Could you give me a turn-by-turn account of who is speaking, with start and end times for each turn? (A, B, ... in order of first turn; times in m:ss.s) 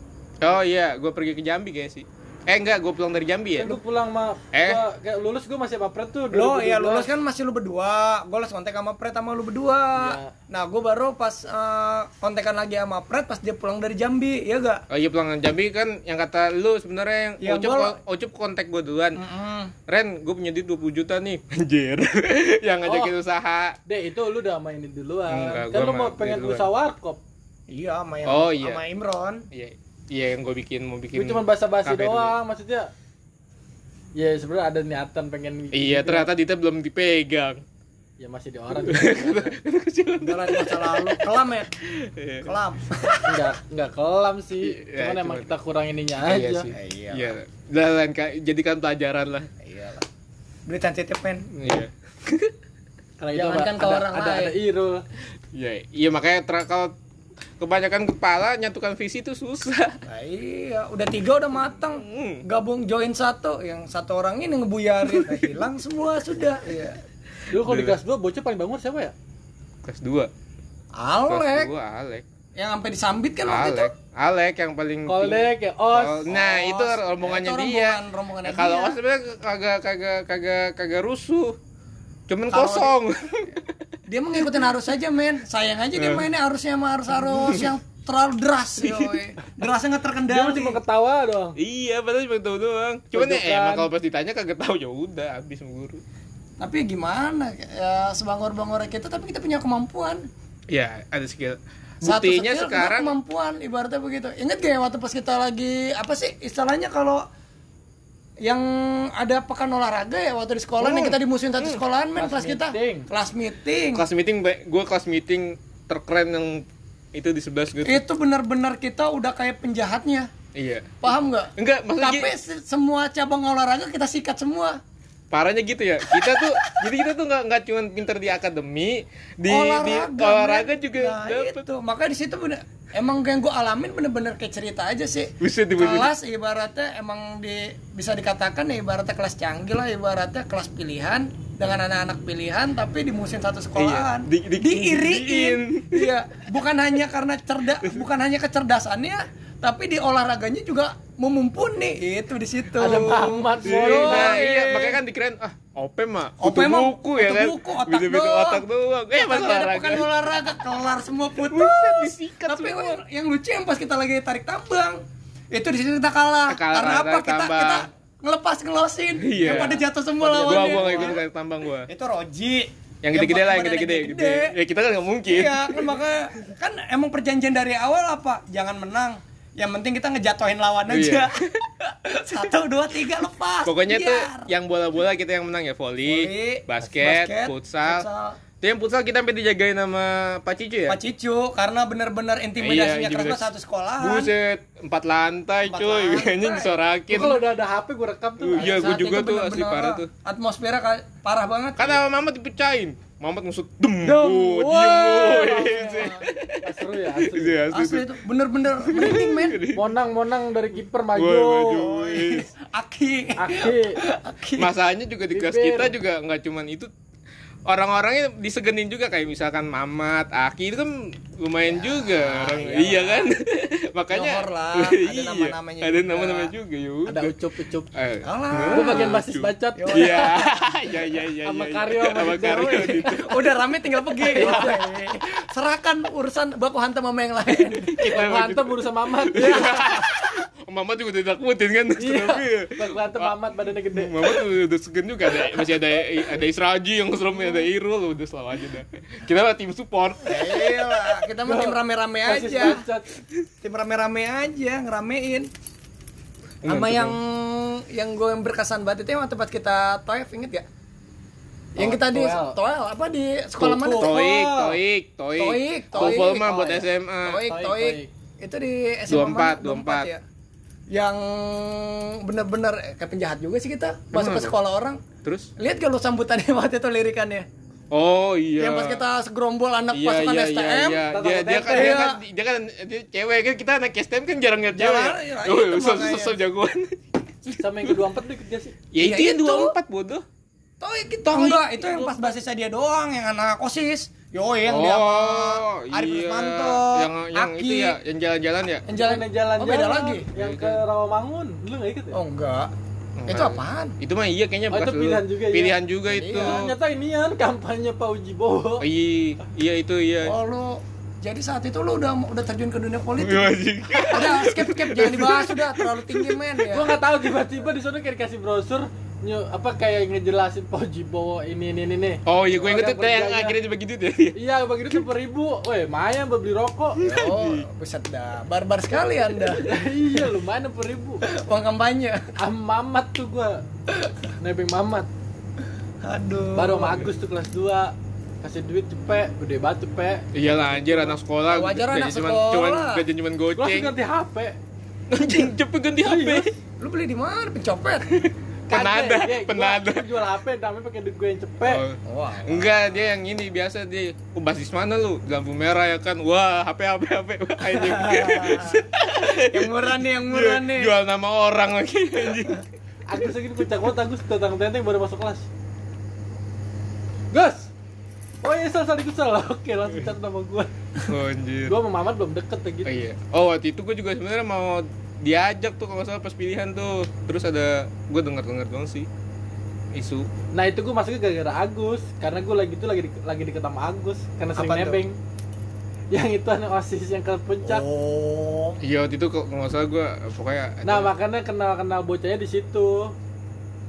0:00.4-0:03.8 A
0:03.6-0:07.1 B
0:04.5-0:04.8 A
0:06.3-0:14.8 C
0:09.9-0:10.3 B
0:14.9-0:19.2 A
0:17.4-0:18.0 C
0:19.2-0:19.7 C
0:19.9-0:23.8 A
0:22.8-0:23.1 B
0:23.8-0:27.2 B
0:25.3-0:26.7 A
0:27.7-0:29.5 C
0:28.2-0:28.8 A
0:29.5-0:32.4 A
0:31.1-0:32.9 B
0:34.1-0:36.3 B
0:35.7-0:37.6 A
0:38.2-0:39.6 B
0:38.8-0:41.2 A
0:40.2-0:41.7 C
0:41.8-0:42.5 A
0:42.4-0:43.2 C
0:43.2-0:46.7 B
0:44.6-0:45.6 A
0:46.2-0:49.5 A
0:46.7-0:47.3 C
0:49.6-0:50.0 C
0:50.7-0:51.8 C
0:51.5-0:52.5 A
0:53.2-0:55.0 B
0:53.3-0:54.5 C
0:55.5-0:56.9 A
0:57.6-1:00.0 A
1:00.0-1:07.0 C
1:01.9-1:02.4 A
1:05.1-1:05.5 A
1:07.5-1:09.1 B
1:07.6-1:08.0 A
1:09.8-1:10.3 A
1:10.9-1:11.7 C
1:11.3-1:12.2 A
1:12.6-1:13.9 C
1:13.5-1:21.6 A
1:15.1-1:16.3 B
1:16.3-1:19.0 C
1:22.3-1:23.7 A
1:22.5-1:23.0 C
1:24.1-1:30.8 C
1:26.0-1:26.2 A
1:28.8-1:29.2 A
1:30.3-1:31.6 B
1:31.6-1:36.0 A
1:33.1-1:33.9 B
1:36.6-1:40.3 C
1:40.7-1:43.1 A
1:42.0-1:47.2 C
1:48.4-1:54.0 C
1:50.8-1:51.8 A
1:52.2-1:53.1 B
1:53.9-1:58.0 A
1:57.8-2:00.3 C
2:00.5-2:01.0 A
2:01.0-2:04.8 C
2:01.6-2:02.3 A
2:05.3-2:11.6 A
2:09.5-2:35.0 C
2:15.4-2:16.1 A
2:23.8-2:26.1 A
2:32.8-2:34.4 B
2:33.6-2:40.1 A
2:36.4-2:45.0 C
2:41.5-2:43.0 A
2:45.5-2:51.2 C
2:46.5-2:47.8 A
2:49.2-2:51.9 A
2:50.2-2:51.2 B
2:51.9-2:54.5 C
2:53.0-2:55.9 A
2:55.2-3:04.5 C
3:00.9-3:01.6 A
3:03.6-3:08.0 A
3:06.0-3:08.4 C
3:08.6-3:11.0 A
3:10.9-3:14.3 C
3:12.6-3:17.4 A
3:15.7-3:16.7 C
3:17.1-3:18.8 B
3:18.4-3:20.1 A
3:18.5-3:22.0 C
3:21.8-3:28.1 A
3:24.0-3:27.6 B
3:25.1-3:26.3 C
3:27.7-3:29.7 C
3:28.8-3:29.9 A
3:29.7-3:31.9 B
3:31.1-3:32.5 A
3:31.7-3:34.7 C
3:33.4-3:34.0 B
3:34.6-3:36.9 A
3:35.3-3:35.9 B
3:37.7-3:47.3 A
3:41.6-3:43.3 C
3:44.1-3:46.5 C
3:47.0-3:47.9 B
3:47.9-3:53.3 A
3:48.2-3:49.2 C
3:48.7-3:50.5 B
3:49.8-3:50.8 C
3:51.4-3:53.2 B
3:52.4-3:58.2 C
3:54.3-3:54.8 B
3:54.3-3:54.7 A
3:57.9-4:03.3 A
3:58.0-4:00.0 B
4:02.0-4:04.5 B
4:03.9-4:10.8 A
4:10.2-4:12.8 C
4:11.4-4:13.1 B
4:13.6-4:15.5 C
4:16.6-4:17.2 A
4:16.6-4:20.6 C
4:21.7-4:22.6 B
4:21.8-4:24.8 C
4:23.6-4:27.4 A
4:23.7-4:24.2 B
4:25.4-4:30.2 C
4:25.9-4:26.8 B
4:27.4-4:28.1 B
4:29.1-4:30.1 A
4:30.9-4:35.0 C
4:34.1-4:34.5 A
4:35.2-4:35.5 A
4:35.6-4:37.5 C
4:37.9-4:39.0 A
4:38.6-4:42.2 C
4:39.9-4:48.0 A
4:41.1-4:42.0 B
4:44.7-4:46.4 C
4:47.6-4:48.8 B
4:48.9-4:50.2 A
4:49.0-4:49.7 C
4:50.8-4:58.0 C
4:51.3-4:52.3 A
4:54.7-4:58.8 A
4:58.9-5:00.3 C
4:58.9-5:02.2 B
5:00.3-5:00.8 A
5:02.1-5:02.7 C
5:03.2-5:06.7 A
5:03.3-5:04.0 C
5:04.7-5:08.8 B
5:06.1-5:06.6 C
5:08.8-5:10.3 A
5:10.2-5:16.9 C
5:13.2-5:16.3 A
5:16.7-5:23.6 B
5:22.2-5:24.4 A
5:24.4-5:27.0 B
5:27.0-5:29.7 C
5:27.0-5:27.6 A
5:29.6-5:31.2 B
5:31.2-5:32.3 C
5:32.4-5:33.6 B
5:34.4-5:35.1 B
5:36.0-5:37.1 C
5:36.5-5:41.2 B
5:40.3-5:43.9 A
5:41.5-5:43.0 C
5:43.6-5:44.6 B
5:45.1-5:46.5 A
5:46.0-5:46.5 B
5:46.8-5:48.2 C
5:48.2-5:50.1 A
5:48.7-5:51.8 B
5:51.6-6:02.6 A
5:52.0-5:53.0 C
5:57.6-6:00.9 C
6:03.1-6:05.5 B
6:07.3-6:07.7 B
6:08.4-6:10.7 B
6:11.0-6:11.8 A
6:11.7-6:12.9 B
6:12.8-6:19.1 A
6:19.9-6:20.3 A
6:20.5-6:25.2 B
6:24.5-6:25.0 C
6:26.1-6:27.8 B
6:27.6-6:28.8 C
6:28.8-6:31.1 A
6:30.8-6:33.1 B